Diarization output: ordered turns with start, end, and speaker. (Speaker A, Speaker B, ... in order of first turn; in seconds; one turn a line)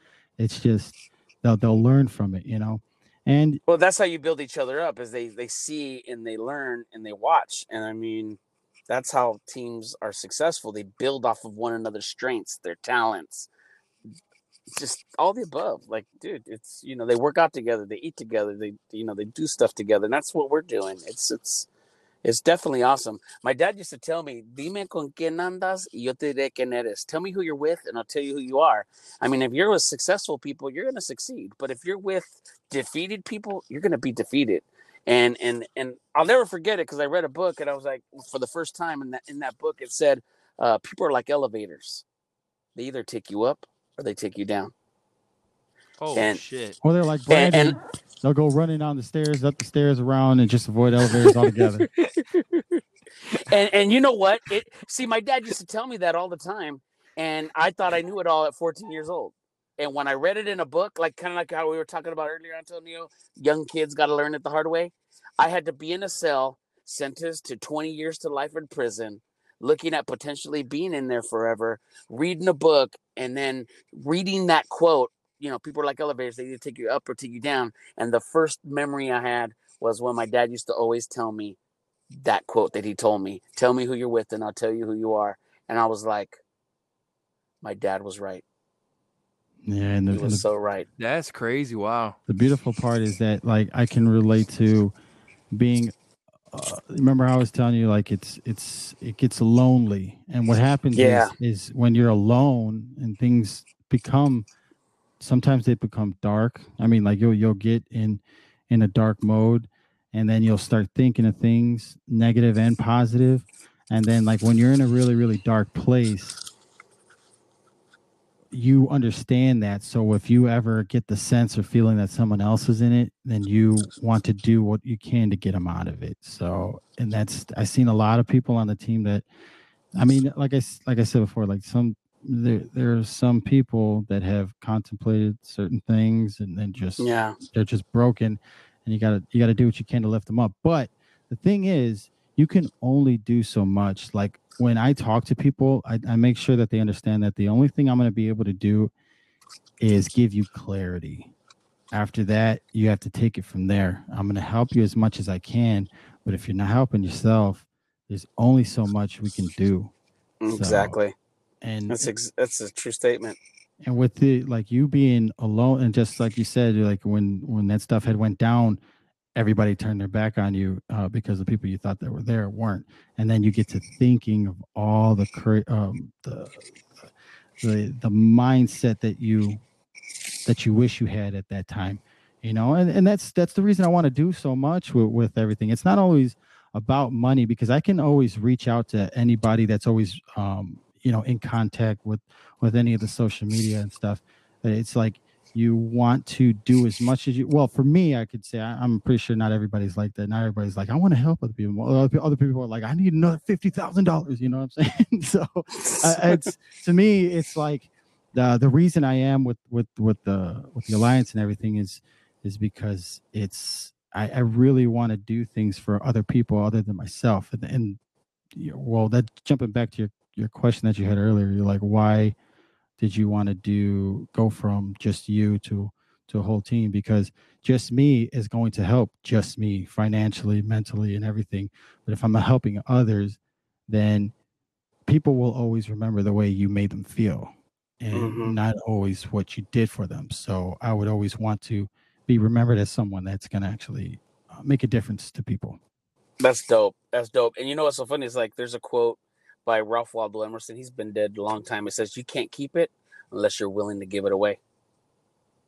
Speaker A: 0.4-3.6
Speaker B: 3.7-13.5
Speaker B: 14.7-21.7
Speaker B: 22.2-42.0
Speaker B: 42.8-44.7
Speaker C: 46.0-46.8
Speaker A: 46.8-51.9
Speaker B: 47.3-47.8
Speaker B: 51.1-52.8
Speaker B: 53.4-81.6
Speaker B: 82.1-86.4
Speaker B: 87.6-88.4
Speaker A: 89.6-90.4
Speaker B: 90.1-90.9
Speaker C: 91.0-92.2
Speaker A: 92.3-94.9
Speaker A: 95.5-95.9
Speaker A: 96.5-104.5
Speaker B: 100.9-101.3
Speaker A: 105.2-116.4
Speaker A: 118.5-129.2
Speaker A: 129.9-148.9
Speaker B: 137.0-137.4
Speaker A: 149.8-151.3
Speaker A: 151.9-159.9
Speaker B: 160.4-161.1
Speaker A: 160.5-160.9
Speaker A: 161.6-162.1
Speaker B: 161.9-163.4
Speaker A: 163.8-168.8
Speaker A: 169.3-176.7
Speaker A: 177.6-179.6
Speaker A: 180.4-218.0
Speaker B: 205.7-206.5
Speaker A: 218.5-222.3
Speaker A: 223.0-234.3
Speaker A: 235.1-245.8
Speaker B: 238.1-238.6
Speaker B: 246.4-254.6